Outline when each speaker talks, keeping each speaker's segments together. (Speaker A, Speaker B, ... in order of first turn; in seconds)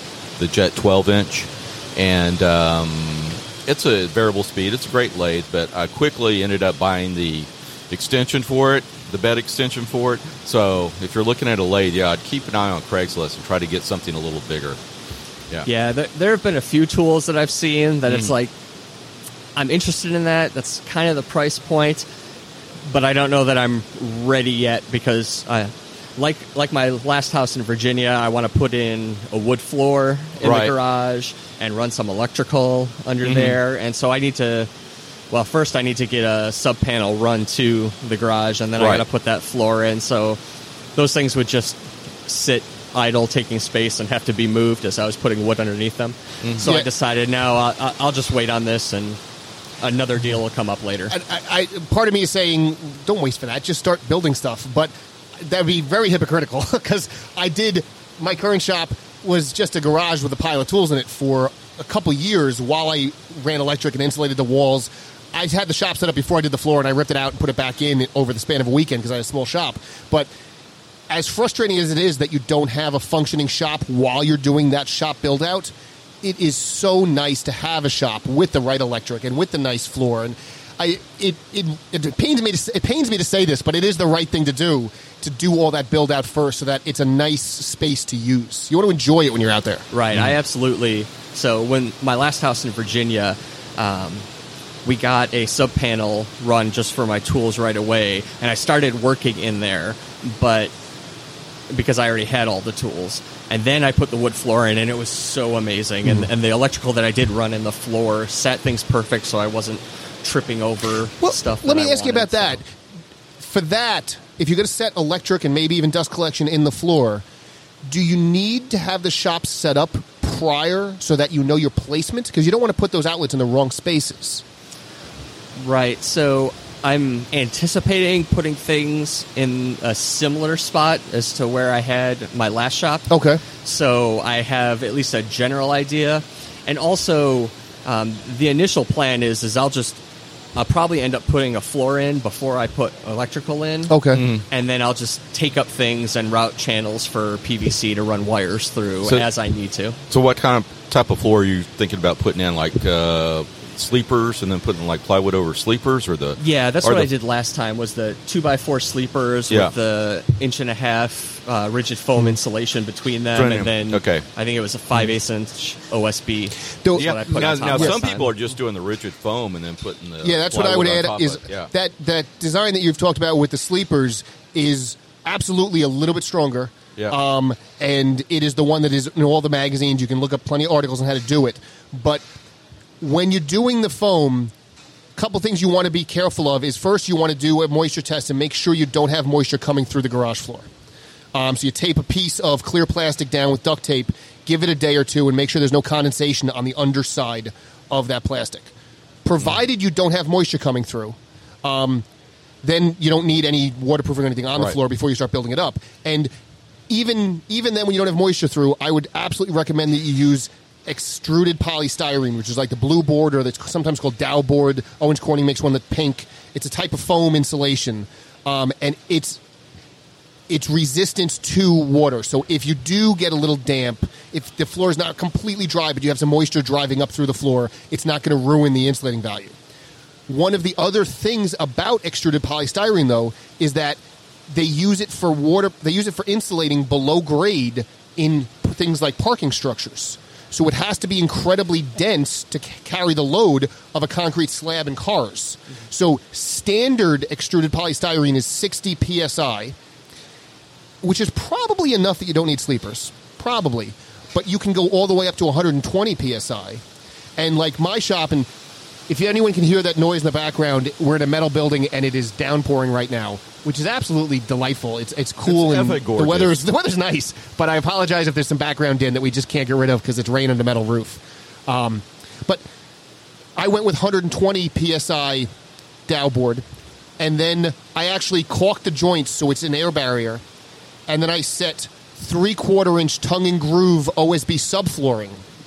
Speaker A: 0.4-14.8, 18.1-18.3, 30.4-30.7, 33.2-33.6, 38.8-39.0, 144.1-144.4, 150.1-157.1, 163.3-164.2, 167.0-171.7, 265.4-266.5
Speaker B: 15.7-18.5, 19.6-22.1, 22.9-34.7, 35.3-40.4, 41.0-49.2, 49.8-51.1, 89.9-94.3, 94.8-100.7, 101.7-112.6, 125.6-133.1, 133.6-140.0, 140.6-150.0, 156.4-168.3
Speaker C: 46.6-46.9, 51.1-70.3, 71.1-89.9, 111.2-112.7, 113.4-117.2, 117.9-124.4, 133.1-133.4, 143.9-144.2, 166.8-167.1, 170.2-182.2, 183.0-184.5, 185.2-190.7, 191.3-198.7, 199.2-202.1, 202.6-206.3, 206.9-219.4, 220.5-229.6, 230.3-249.8, 251.0-256.8, 257.4-258.5, 259.1-272.6, 273.6-275.5, 276.1-276.6, 277.2-280.4, 281.1-285.4